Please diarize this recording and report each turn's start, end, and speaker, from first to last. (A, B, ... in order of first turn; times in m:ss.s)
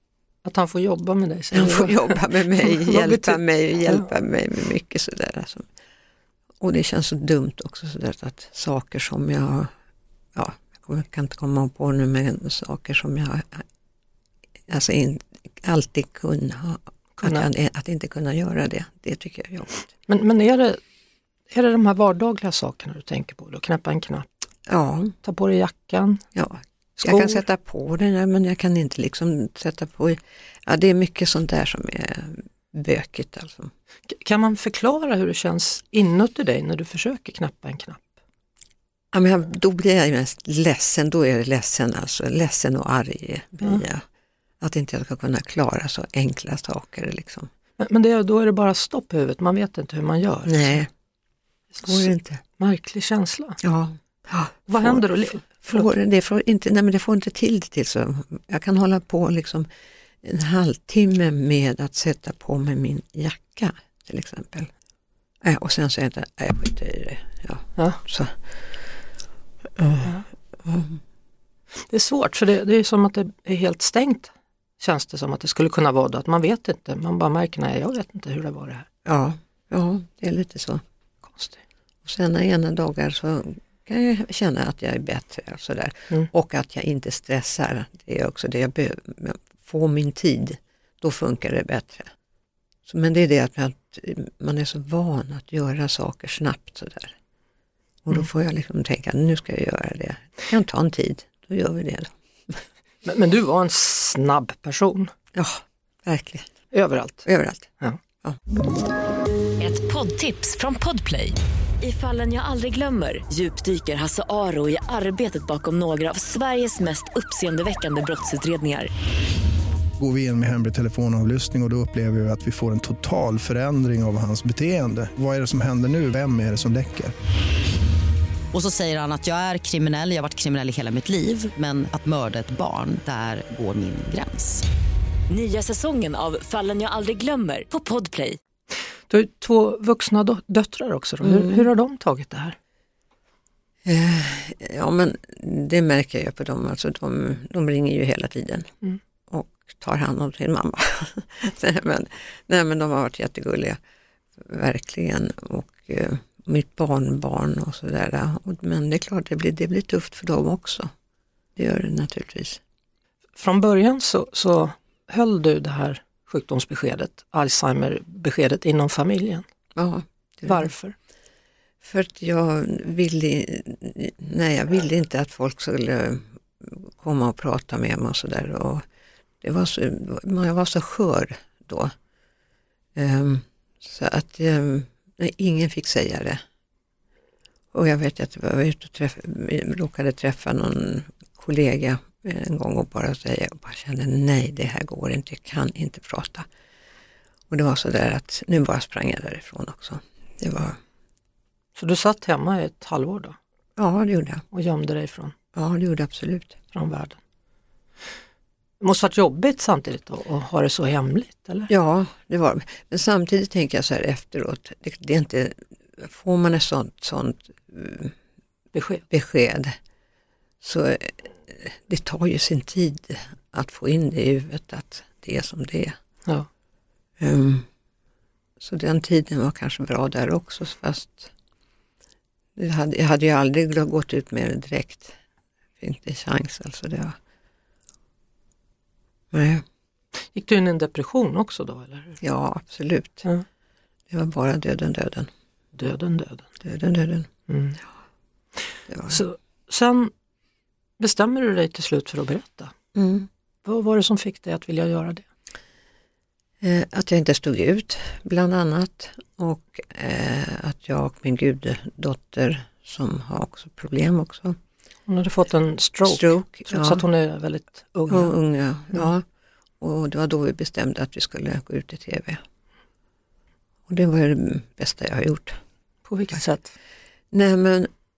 0:00.4-0:04.1 A
0:01.5-0:05.7 B
0:06.6-0:09.7 B
0:10.4-0:13.6 B
0:14.7-0:19.9 B
0:17.2-0:17.5 A
0:20.1-0:20.8 A
0:21.5-0:24.3 A
0:24.7-0:25.2 B
0:25.2-0:26.2 A
0:26.4-0:33.7 B
0:27.0-0:27.4 A
0:34.1-0:38.1 A
0:39.1-0:44.0 B
0:44.6-0:47.5 B
0:47.8-0:50.8 A
0:50.5-0:50.9 B
0:51.7-0:53.6 A
0:51.8-0:52.4 B
0:53.6-0:59.7 B
0:54.7-0:55.9 A
1:00.2-1:04.7 B
1:05.4-1:08.8 B
1:09.8-1:11.0 B
1:11.9-1:18.9 A
1:19.0-1:20.8 B
1:21.3-1:21.6 A
1:22.0-1:32.1 B
1:32.9-1:37.2 B
1:38.0-1:42.6 B
1:43.0-1:45.1 A
1:45.3-1:46.5 B
1:46.7-1:47.3 A
1:47.3-1:47.7 B
1:49.6-1:58.9 C
2:00.0-2:07.2 D
2:08.5-2:14.6 E
2:15.3-2:18.4 C
2:19.1-2:22.6 A
2:21.2-2:21.7 B
2:23.8-2:28.7 B
2:29.3-2:33.8 B
2:34.4-2:40.9 B
2:41.6-2:42.6 B
2:43.4-2:49.4 A
2:49.8-2:50.7 B
2:50.5-2:51.0 A
2:51.8-2:58.8 B
2:59.4-3:01.9 B
3:03.0-3:06.4 B
3:07.7-3:16.5 B
3:17.5-3:20.8 B
3:21.8-3:23.4 A
3:23.8-3:24.4 B
3:24.5-3:25.3 A
3:25.6-3:26.6 B
3:26.7-3:27.2 A
3:28.8-3:31.7 A
3:31.7-3:38.1 B
3:38.7-3:39.0 A
3:39.1-3:39.8 B
3:40.6-3:46.0 B
3:47.2-3:47.7 B
3:48.6-3:51.3 B
3:52.6-3:55.2 B
3:55.8-3:57.2 B
3:59.3-3:59.6 B
4:00.3-4:02.2 A
4:02.2-4:03.3 B
4:04.1-4:05.3 B
4:05.8-4:06.5 A
4:06.6-4:07.3 B
4:07.5-4:07.8 A
4:08.9-4:09.2 B
4:09.1-4:10.1 A
4:11.0-4:12.7 A
4:13.0-4:13.3 B
4:13.6-4:15.2 A
4:16.6-4:24.6 B
4:25.1-4:28.3 A
4:26.0-4:27.0 B
4:28.1-4:29.2 B
4:29.8-4:32.4 B
4:33.9-4:35.6 B
4:36.1-4:36.7 A
4:37.3-4:37.9 B